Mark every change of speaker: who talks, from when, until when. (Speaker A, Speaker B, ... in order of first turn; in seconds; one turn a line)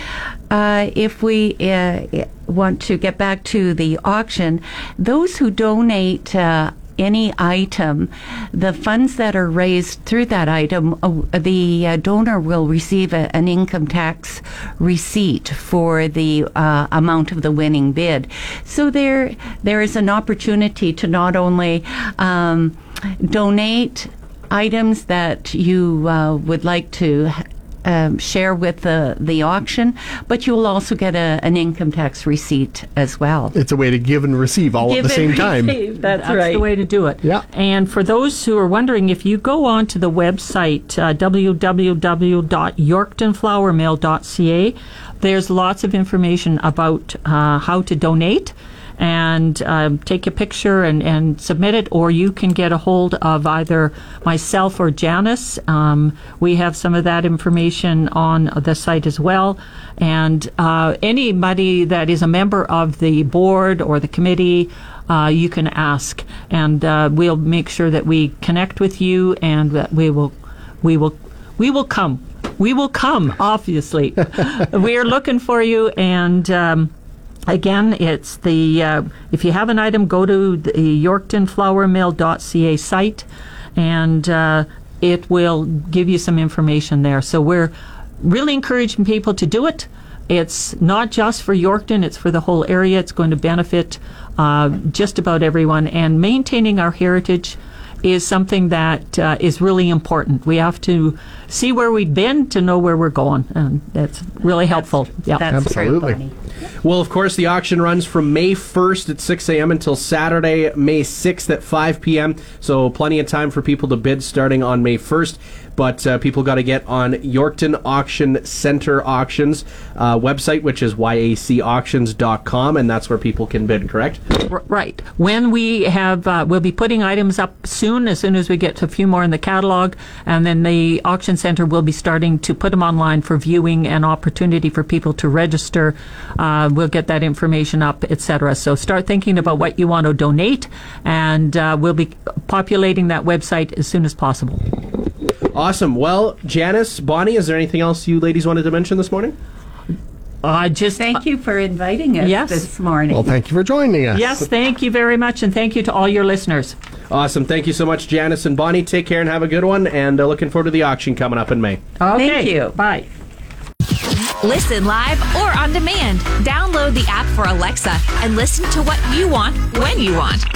Speaker A: 0.5-33.5
Speaker B: 33.5-35.8
Speaker A: 34.8-36.6
Speaker C: 36.0-76.9
Speaker C: 77.5-105.5
Speaker A: 104.8-106.3
Speaker B: 105.5-106.2
Speaker D: 106.8-124.2
Speaker C: 124.5-144.6
Speaker D: 145.5-149.3
Speaker C: 150.4-151.2
Speaker A: 151.0-153.3
Speaker C: 152.2-152.7
Speaker B: 153.1-154.4
Speaker C: 154.1-156.8
Speaker D: 157.1-161.8
Speaker C: 162.0-163.1
Speaker A: 162.1-162.8
Speaker E: 164.4-170.4